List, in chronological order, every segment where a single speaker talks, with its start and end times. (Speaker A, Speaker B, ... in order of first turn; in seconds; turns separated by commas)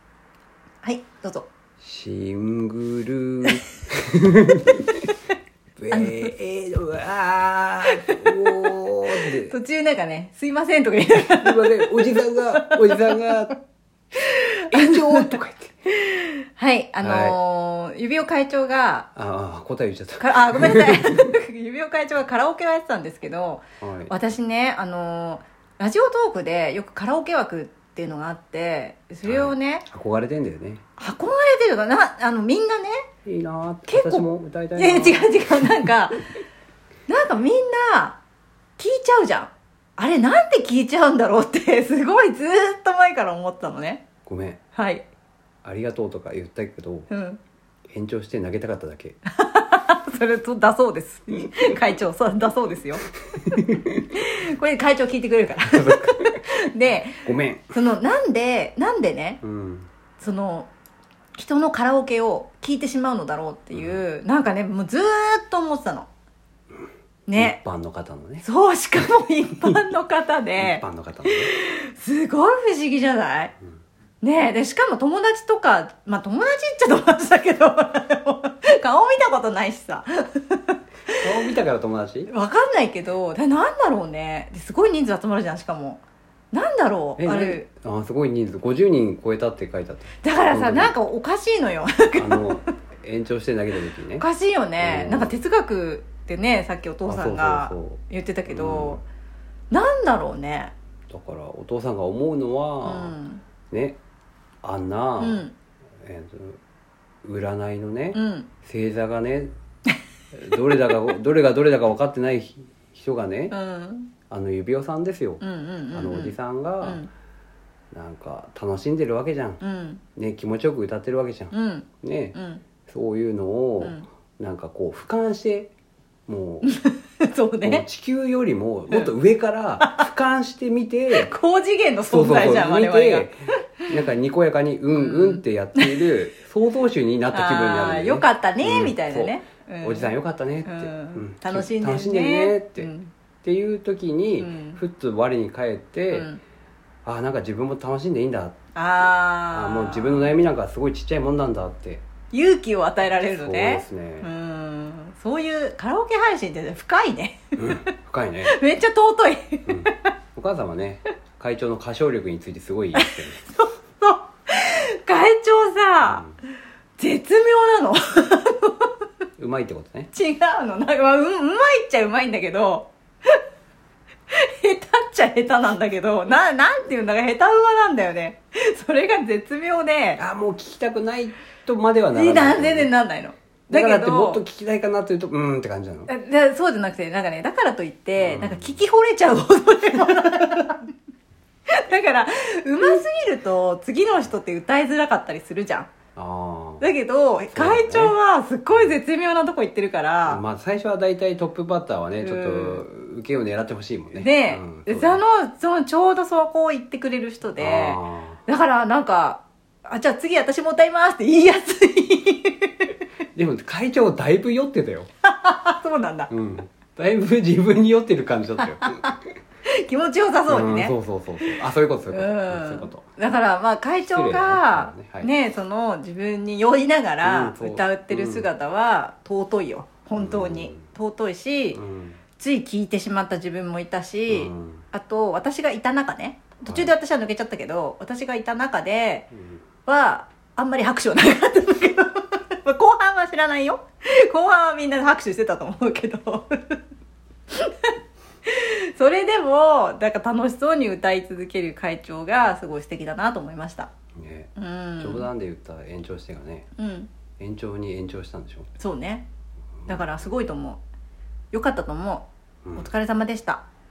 Speaker A: 0.8-1.5, Speaker B: 1.8-5.0, Speaker B: 5.8-9.6, Speaker A: 5.9-6.3, Speaker A: 7.9-13.3, Speaker B: 11.4-13.6, Speaker A: 14.2-15.3, Speaker B: 14.7-15.8, Speaker A: 16.0-19.1, Speaker B: 17.0-17.4, Speaker B: 19.2-21.3, Speaker A: 20.2-29.9, Speaker B: 23.8-24.1, Speaker B: 29.2-30.8, Speaker A: 31.0-33.0, Speaker B: 33.2-35.9, Speaker A: 33.9-36.2, Speaker A: 37.1-38.2, Speaker A: 38.8-44.1, Speaker B: 44.3-44.6, Speaker A: 44.8-45.0, Speaker B: 45.6-47.1, Speaker A: 47.1-47.4, Speaker B: 47.9-49.2, Speaker A: 49.3-53.0, Speaker B: 53.4-54.0, Speaker A: 54.1-59.4, Speaker B: 55.7-56.5, Speaker B: 57.2-57.7, Speaker B: 59.4-59.9, Speaker A: 60.2-60.7, Speaker A: 61.4-66.1, Speaker B: 63.7-64.0, Speaker A: 67.3-67.6, Speaker B: 67.4-68.5, Speaker A: 68.4-73.5, Speaker B: 70.6-71.5, Speaker A: 74.2-81.3, Speaker B: 81.2-82.3, Speaker A: 82.3-87.7, Speaker B: 87.2-90.9, Speaker A: 90.2-92.7, Speaker B: 92.2-94.3, Speaker A: 94.2-99.0, Speaker B: 94.8-95.4, Speaker B: 97.1-99.0, Speaker A: 99.7-100.7, Speaker B: 101.1-103.2, Speaker A: 102.8-103.4, Speaker B: 103.7-104.0, Speaker B: 104.6-105.5, Speaker A: 105.2-105.5, Speaker B: 106.0-106.6, Speaker B: 107.2-109.5, Speaker A: 108.1-108.5, Speaker B: 110.3-113.5, Speaker A: 113.5-114.1, Speaker B: 114.3-117.0, Speaker A: 115.4-117.1, Speaker B: 117.9-119.6, Speaker A: 119.6-120.0, Speaker B: 120.2-125.7, Speaker A: 121.5-122.6, Speaker B: 126.3-126.7, Speaker A: 126.6-127.9, Speaker B: 127.6-131.3, Speaker A: 129.8-130.1, Speaker A: 131.1-133.3, Speaker B: 132.1-133.4, Speaker B: 133.9-142.9, Speaker A: 134.9-136.1, Speaker A: 137.3-140.1, Speaker A: 140.7-143.1, Speaker B: 143.4-146.3, Speaker A: 144.4-144.8, Speaker A: 146.1-146.4, Speaker B: 147.1-152.0, Speaker A: 148.8-150.3, Speaker A: 152.3-157.9, Speaker B: 153.2-154.3, Speaker B: 157.6-158.6, Speaker A: 158.4-159.9, Speaker B: 159.7-163.5, Speaker A: 163.0-166.2, Speaker B: 166.0-166.3, Speaker A: 167.0-168.9, Speaker B: 169.4-170.1, Speaker A: 170.1-173.4, Speaker A: 174.3-180.2, Speaker B: 180.2-182.9, Speaker A: 182.1-184.4, Speaker B: 183.7-186.1, Speaker A: 186.1-190.9, Speaker B: 188.2-188.8, Speaker A: 191.7-195.9, Speaker B: 196.2-196.8, Speaker A: 196.8-200.4, Speaker B: 197.5-198.2, Speaker B: 200.3-205.2, Speaker A: 202.2-202.8, Speaker A: 204.2-212.9, Speaker B: 207.6-208.4, Speaker B: 213.3-215.1, Speaker A: 215.2-216.3, Speaker B: 216.3-219.1, Speaker A: 218.6-220.9, Speaker B: 220.5-223.0, Speaker A: 221.4-231.8, Speaker B: 224.1-225.3, Speaker B: 227.2-228.5, Speaker B: 230.2-230.8, Speaker B: 231.7-232.2, Speaker A: 232.4-239.3, Speaker B: 234.3-234.8, Speaker B: 236.7-236.9, Speaker B: 239.3-239.6, Speaker A: 239.9-246.8, Speaker A: 247.5-247.9, Speaker A: 248.5-253.9, Speaker B: 254.2-256.7, Speaker A: 254.6-255.3, Speaker A: 256.8-257.1, Speaker B: 257.4-258.7, Speaker A: 258.8-259.2, Speaker B: 259.8-260.1, Speaker A: 259.9-260.8, Speaker A: 261.5-263.6, Speaker B: 262.6-262.9